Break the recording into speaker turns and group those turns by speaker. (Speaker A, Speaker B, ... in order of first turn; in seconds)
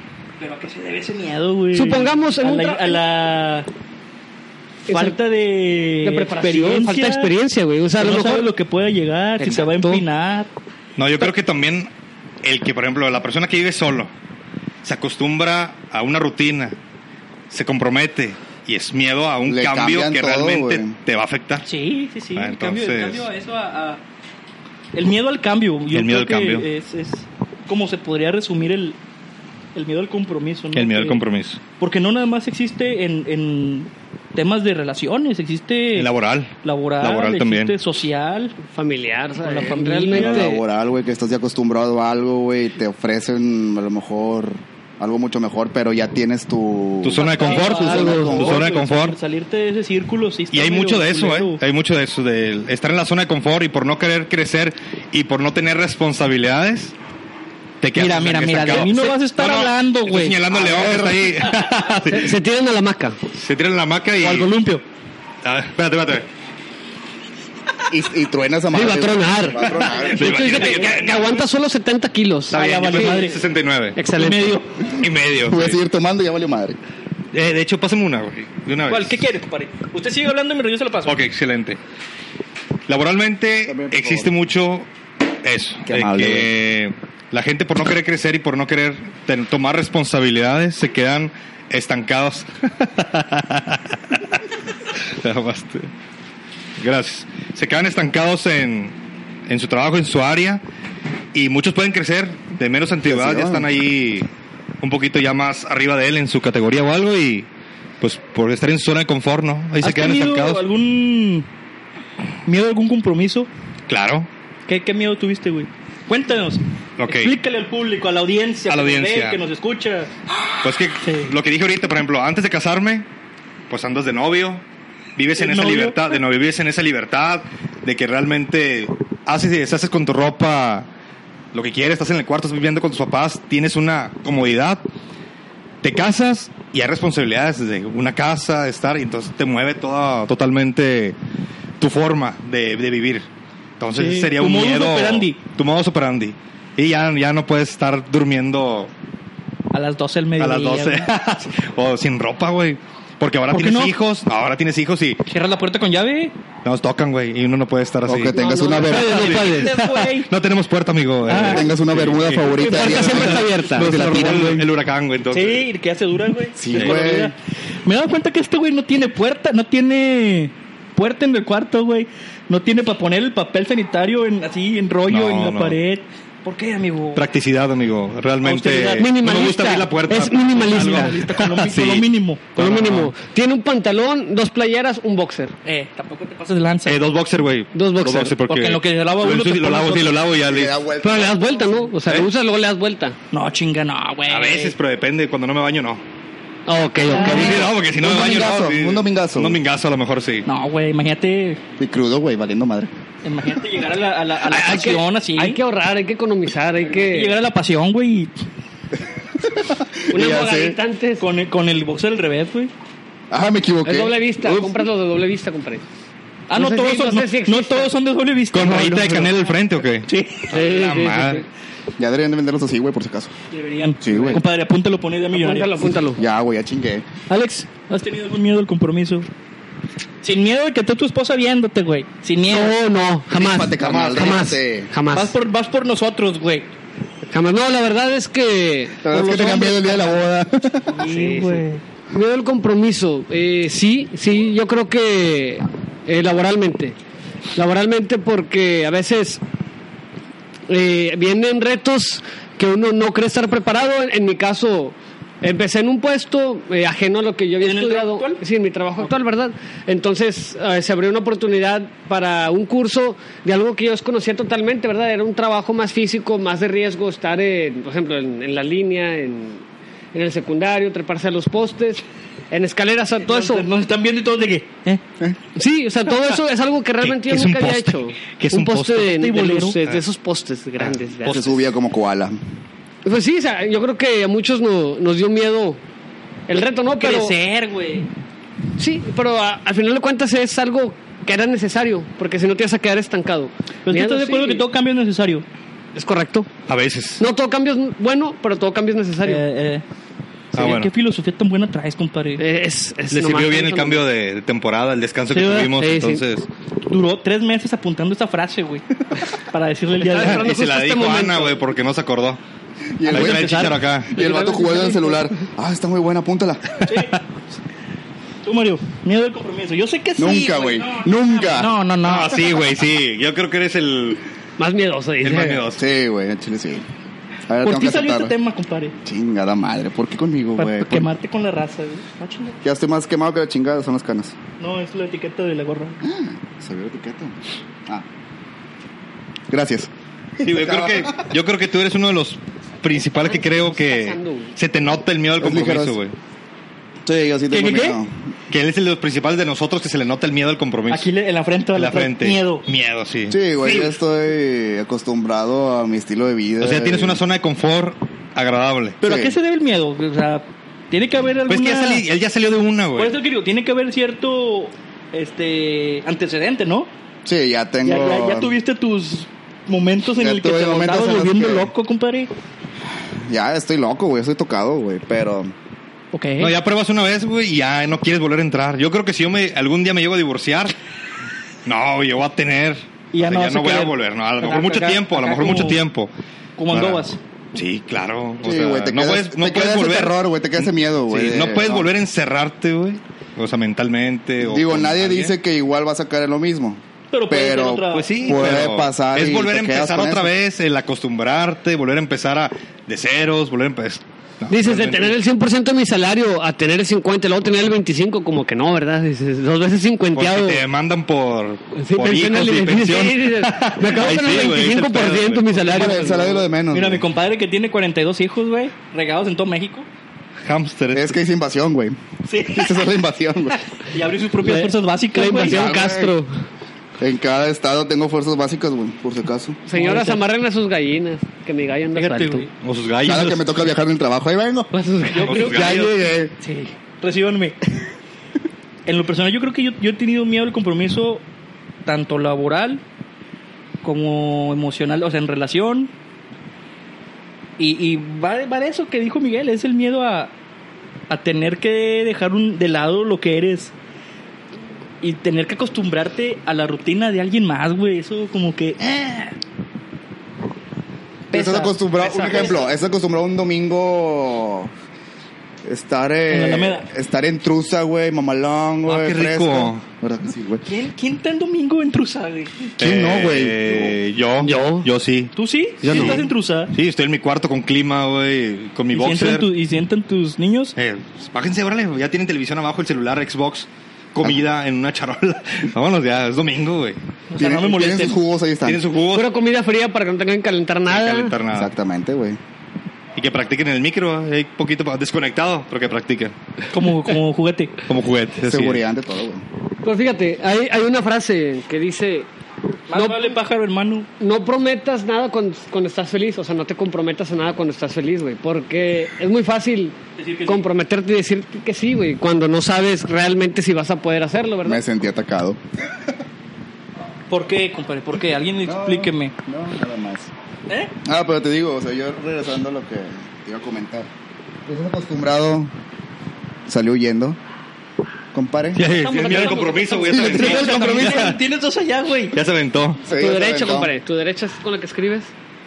Speaker A: 0.4-3.7, 4.9-7.3, 8.0-10.5, 21.6-24.0, 24.9-29.0, 29.7-31.2, 31.8-36.1, 36.6-38.6, 39.4-40.5, 47.2-51.6, 58.0-61.5, 64.2-64.8, 69.9-71.0, 72.5-73.4, 74.2-74.7, 78.9-81.2, 109.8-111.5, 112.5-113.5, 114.7-120.1, 121.0-121.3, 125.4-126.2, 143.9-145.4, 149.7-151.1, 153.5-154.0, 155.3-156.3, 158.4-160.3, 161.3-161.7, 165.3-177.2, 178.4-179.4, 180.6-182.5, 185.7-187.0, 188.5-190.2, 193.3-194.8, 197.1-197.7, 200.5-201.6, 203.2-205.6, 206.9-208.3, 211.2-212.7, 216.5-219.5, 220.1-220.5, 223.5-225.9, 227.3-229.3, 230.2-232.8, 235.1-236.7, 239.1-240.2, 240.9-241.8, 257.6-258.4, 273.2-275.0, 279.1-279.8, 287.0-288.1, 293.9-295.4, 299.2-299.8, 300.5-302.4, 305.3-305.7, 306.9-310.5, 313.1-313.9, 316.9-317.2, 318.4-322.5, 327.6-328.9, 330.6-332.6, 334.6-336.0, 347.5-348.0, 350.9-352.6, 359.0-362.1, 363.0-366.9, 367.8-372.3, 376.1-376.6, 383.1-385.8, 386.6-387.2, 397.1-398.6, 416.7-419.9, 422.3-422.9, 423.9-425.8, 429.7-430.2, 431.9-432.5, 435.1-437.6, 438.9-441.2, 441.9-442.8, 443.8-445.9, 447.6-450.3, 451.1-453.7, 455.0-459.2, 461.3-462.7, 466.3-466.9, 470.7-472.7, 475.4-476.7, 478.9-480.8, 487.3-488.2, 496.7-497.8, 502.9-504.1, 510.2-510.6, 517.3-519.3, 529.2-532.4
Speaker B: 1.7-3.0, 4.9-5.2, 6.0-8.5, 9.4-10.0, 38.7-40.6, 47.9-48.4, 62.1-63.2, 68.7-73.3, 74.0-74.6, 158.3-159.8, 162.6-164.6, 179.0-181.2, 182.6-185.5, 187.7-188.4, 191.0-193.2, 196.7-197.7, 204.5-207.3, 210.1-211.2, 213.8-215.8, 216.5-217.9, 220.5-221.4, 224.1-224.4, 225.3-226.2, 232.5-235.4, 237.3-239.0, 241.0-247.0, 247.6-249.4, 250.7-273.7, 275.6-281.6, 283.1-285.8, 286.5-287.4, 288.8-294.6, 295.9-296.5, 297.2-299.4, 302.4-304.0, 305.8-306.2, 310.0-311.6, 314.1-315.4, 324.6-325.6, 343.1-344.6, 404.5-410.6, 411.8-416.4, 424.4-426.3, 429.7-432.5, 434.7-435.6, 462.0-462.4, 474.4-474.9, 475.8-476.3, 489.1-491.4, 499.8-502.3, 502.9-503.4, 504.2-514.8, 528.8-531.0, 533.1-535.3
Speaker C: 11.0-11.9, 12.4-14.1, 14.8-16.8, 17.5-21.7, 22.4-23.3, 25.9-26.7, 30.7-31.6, 35.9-37.7, 47.0-49.2, 50.5-57.0, 57.8-62.4, 63.3-64.5, 65.4-66.3, 69.8-71.4, 72.5-74.0, 74.9-75.8, 77.3-79.3, 81.1-81.8, 82.9-84.9, 85.4-94.4, 95.1-95.9, 96.8-99.0, 99.5-100.6, 101.3-104.3, 104.8-107.5, 108.0-110.6, 113.9-114.3, 117.0-117.3, 118.7-119.4, 120.6-123.1, 123.7-124.6, 125.2-130.9, 131.5-134.8, 135.8-141.2, 141.8-143.3, 143.8-148.9, 150.4-155.2, 156.6-165.6, 166.7-167.0, 175.1-175.8, 177.2-183.1, 186.9-190.8, 194.3-196.0, 197.2-200.5, 218.5-221.4, 233.8-234.4, 277.0-279.1, 296.7-297.2, 300.6-300.9, 303.1-306.5, 310.2-312.4, 313.1-314.1, 322.0-324.2, 325.2-325.8, 340.4-346.2, 348.5-351.1, 351.8-353.4, 356.6-359.0, 361.5-363.2, 376.4-380.8, 381.6-386.1, 386.7-395.3, 397.9-405.2, 410.1-415.9, 420.4-421.1, 432.6-433.4, 435.2-435.8, 468.9-469.8, 472.8-475.3, 475.9-479.5, 480.8-487.0, 488.6-489.3, 490.9-491.7, 493.1-496.4, 497.9-498.8, 528.7-531.4, 532.3-533.0
Speaker D: 19.5-20.9, 40.1-48.6, 67.9-70.5, 75.5-76.8, 83.7-84.3, 85.9-86.5, 103.0-103.7, 158.1-159.4, 161.3-164.7, 166.6-167.3, 190.4-191.9, 197.2-199.6, 201.8-202.9, 209.4-210.8, 213.3-214.9, 222.0-223.3, 224.0-224.4, 226.2-227.1, 233.3-234.9, 239.0-240.9, 281.2-282.4, 312.9-316.8, 320.2-321.7, 325.8-326.9, 327.5-328.3, 329.0-331.1, 332.6-334.4, 336.0-337.4, 339.5-341.3, 345.4-346.0, 347.1-348.1, 353.3-357.2, 359.0-359.4, 367.3-368.5, 370.2-371.7, 373.2-375.5, 388.4-391.9, 394.4-400.3, 415.6-417.1, 420.9-423.6, 425.4-426.1, 427.0-429.6, 433.1-434.7, 435.3-436.3, 461.3-464.7, 465.6-470.6, 472.8-474.0, 487.4-488.8, 491.5-492.4, 498.4-499.4, 514.6-515.6, 518.6-520.3, 521.0-524.1, 524.7-525.7, 526.7-527.4, 528.3-528.9, 530.1-530.6, 533.0-533.9